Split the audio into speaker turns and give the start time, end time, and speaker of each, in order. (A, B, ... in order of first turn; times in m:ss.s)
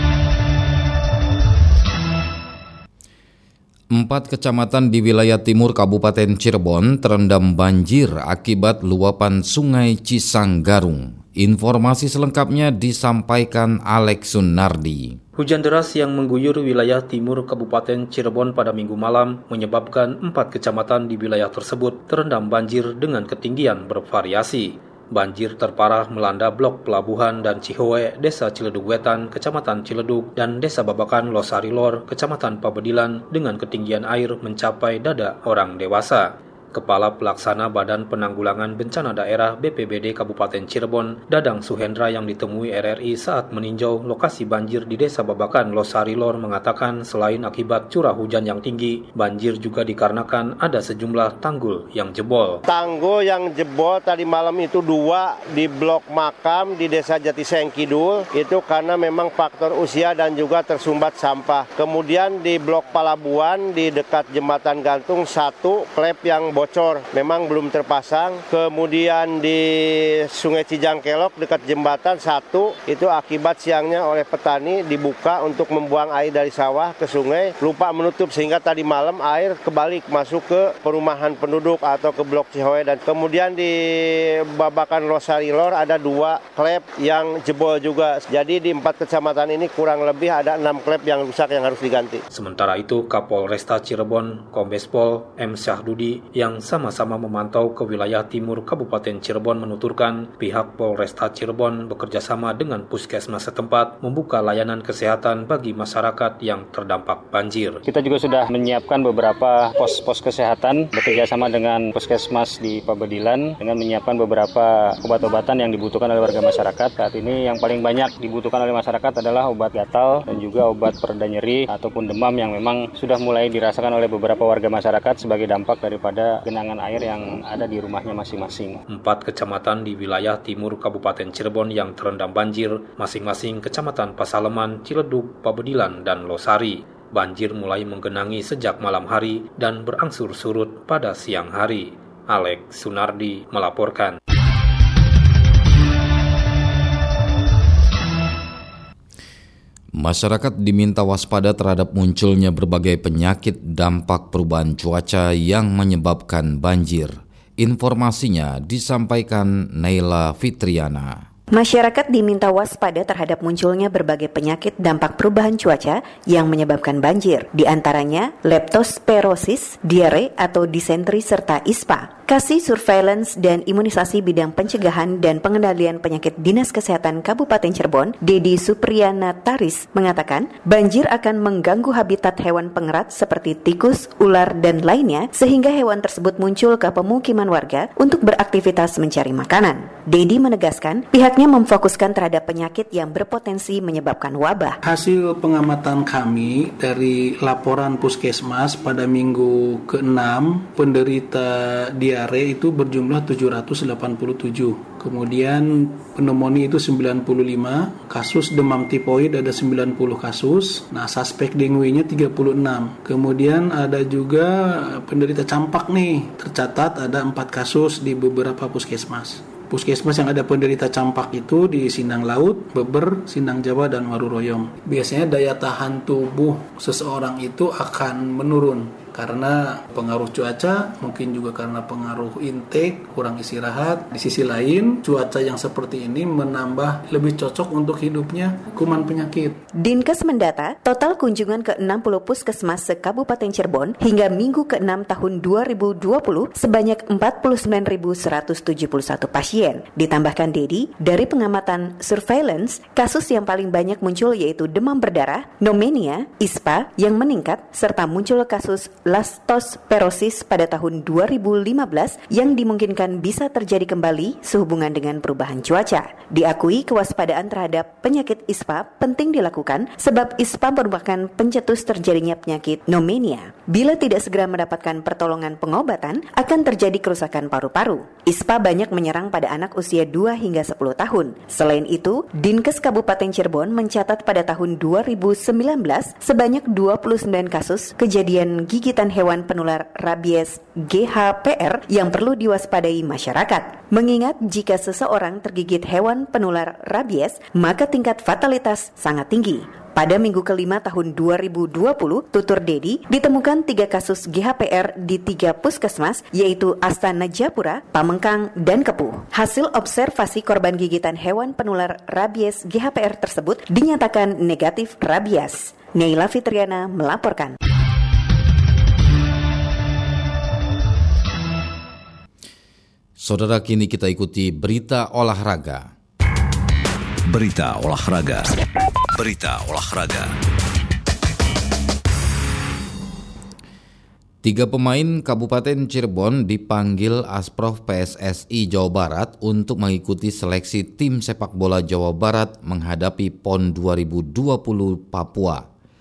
0:03.9-0:15.2 A
0:15.4-0:52.6 B
0:52.7-1:32.2 C
1:32.3-1:47.8 B
1:47.9-2:08.8 D
2:08.9-2:24.2 B
2:29.9-2:41.2 A
2:41.5-3:14.8 E
3:14.8-3:59.6 F
3:59.8-5:17.6 E
5:23.2-5:25.9 A
5:27.3-5:28.5 G
5:29.2-5:30.3 G
5:34.4-5:45.7 A